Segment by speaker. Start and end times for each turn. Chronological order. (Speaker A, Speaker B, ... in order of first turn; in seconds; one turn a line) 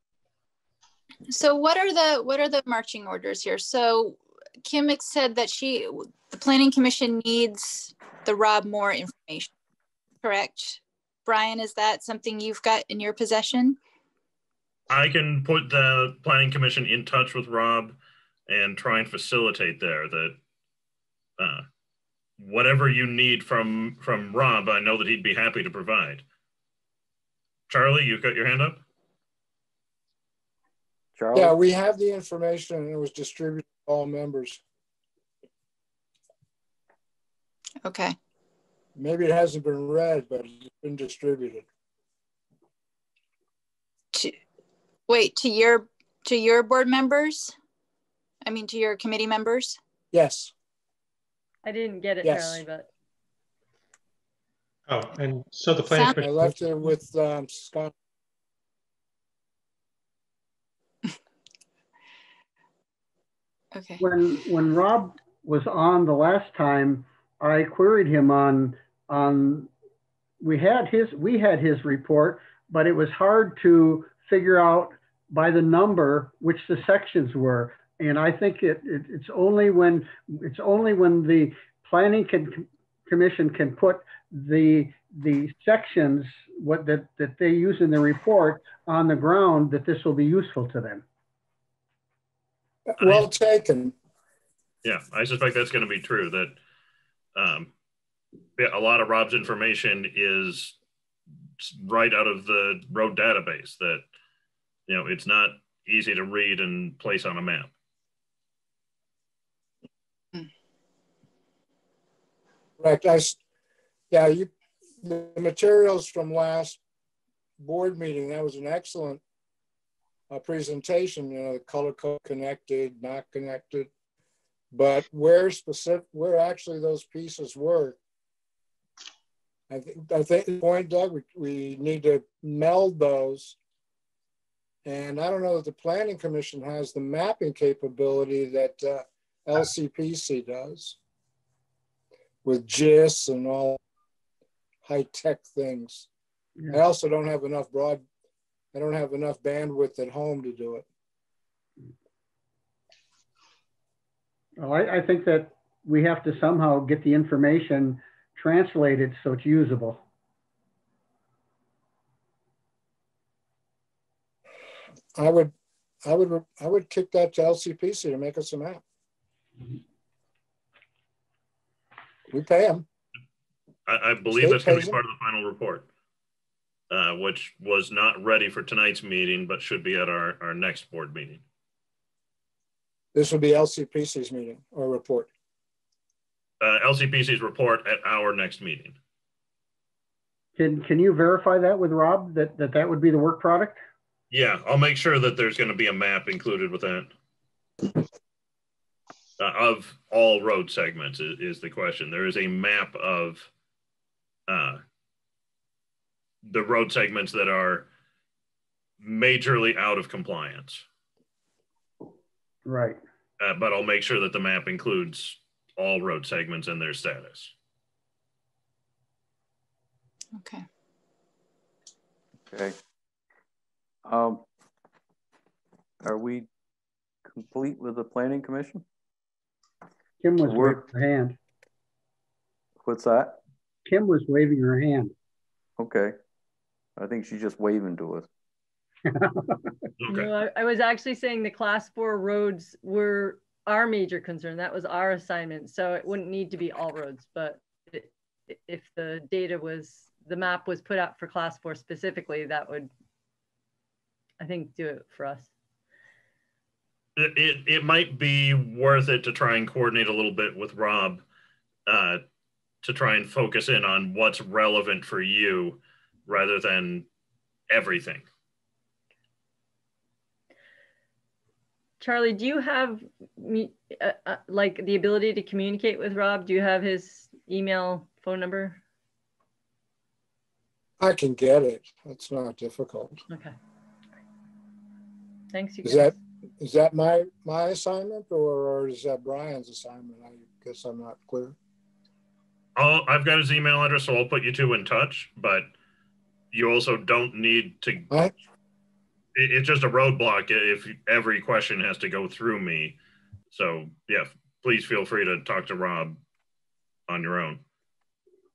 Speaker A: 1.3-9.5
Speaker A: 10.2-13.8
Speaker B: 14.9-18.0
Speaker B: 18.5-20.4
Speaker B: 21.4-21.6
Speaker B: 22.4-26.2
Speaker B: 27.7-28.8
Speaker C: 31.1-31.6
Speaker D: 31.3-34.6
Speaker A: 37.8-38.1
Speaker D: 39.0-41.6
Speaker A: 45.1-47.5
Speaker A: 48.4-49.8
Speaker D: 50.1-50.5
Speaker E: 51.6-52.9
Speaker D: 52.2-52.6
Speaker F: 54.9-56.9
Speaker A: 55.9-56.2
Speaker D: 56.2-57.9
Speaker A: 63.7-64.0
Speaker G: 64.0-69.7
Speaker G: 70.4-91.0
Speaker D: 92.9-93.9
Speaker B: 93.0-93.3
Speaker B: 94.8-96.5
Speaker B: 97.3-97.7
Speaker B: 98.6-100.8
Speaker B: 101.6-104.0
Speaker B: 104.9-107.7
Speaker D: 112.8-113.4
Speaker D: 114.1-114.5
Speaker D: 115.0-116.8
Speaker D: 117.6-119.2
Speaker D: 120.3-123.9
Speaker D: 124.7-128.0
Speaker D: 129.7-133.6
Speaker D: 134.8-140.9
Speaker D: 142.4-143.8
Speaker D: 144.8-146.1
Speaker D: 146.7-148.0
Speaker D: 148.7-150.8
Speaker G: 154.6-160.0
Speaker D: 165.2-165.5
Speaker D: 166.0-168.8
Speaker D: 172.3-172.8
Speaker B: 173.9-175.9
Speaker D: 174.3-175.0
Speaker B: 176.9-181.4
Speaker D: 183.1-185.3
Speaker B: 186.6-188.9
Speaker G: 190.6-193.8
Speaker B: 194.3-197.1
Speaker B: 199.4-203.5
Speaker B: 204.5-204.8
Speaker B: 206.5-207.9
Speaker B: 209.0-210.8
Speaker G: 212.7-213.0
Speaker B: 213.4-217.5
Speaker A: 220.3-220.6
Speaker C: 222.5-222.8
Speaker C: 224.0-224.4
Speaker C: 226.0-226.5
Speaker C: 227.3-228.8
Speaker G: 230.2-231.3
Speaker C: 230.4-230.8
Speaker C: 232.8-233.4
Speaker G: 233.8-235.1
Speaker C: 235.8-236.2
Speaker C: 237.0-238.3
Speaker G: 239.1-239.7
Speaker B: 240.0-240.3
Speaker E: 240.1-252.9
Speaker E: 254.4-255.5
Speaker B: 257.2-261.2
Speaker B: 261.9-262.2
Speaker B: 262.8-267.1
Speaker B: 267.7-268.3
Speaker E: 272.0-278.8
Speaker D: 281.0-283.2
Speaker E: 283.3-283.5
Speaker E: 285.5-286.1
Speaker D: 285.8-291.6
Speaker B: 292.8-295.7
Speaker B: 296.5-298.2
Speaker B: 299.3-303.0
Speaker B: 303.5-306.2
Speaker B: 307.1-307.6